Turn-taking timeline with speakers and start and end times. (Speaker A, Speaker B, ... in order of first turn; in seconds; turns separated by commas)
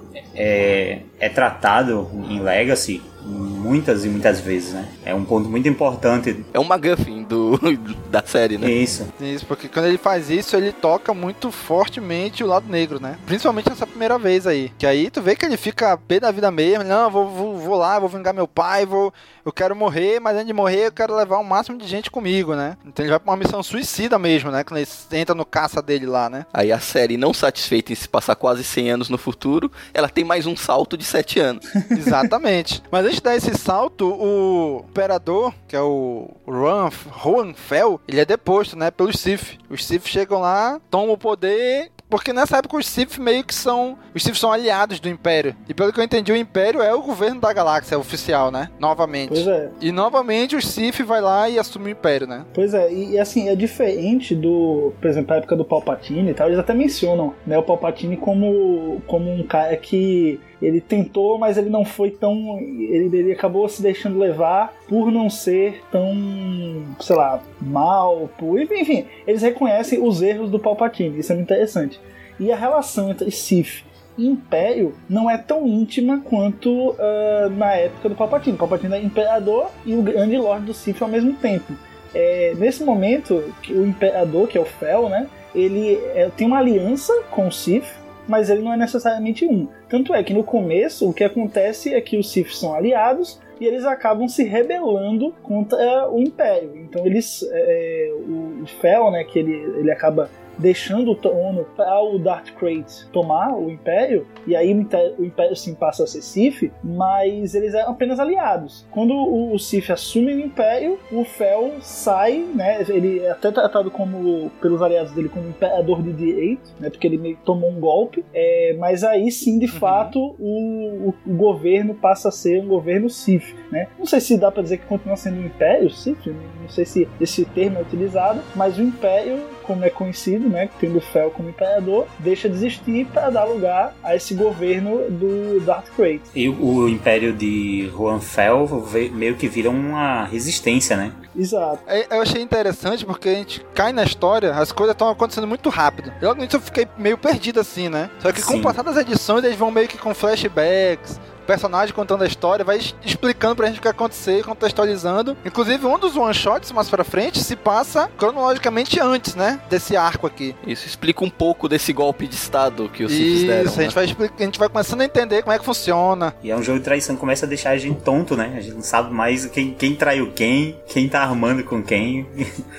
Speaker A: 0.3-6.5, Speaker B: 6.5-8.7, Speaker A: 8.6-9.1, Speaker C: 9.2-26.4, Speaker B: 26.5-31.6, Speaker C: 31.9-52.5, Speaker D: 49.3-49.7, Speaker D: 52.5-136.3, Speaker C: 119.7-120.1, Speaker A: 136.3-141.2, Speaker D: 141.3-141.8, Speaker C: 141.9-160.6, Speaker A: 148.3-148.8, Speaker B: 160.6-163.9, Speaker C: 163.1-166.3, Speaker A: 166.4-172.4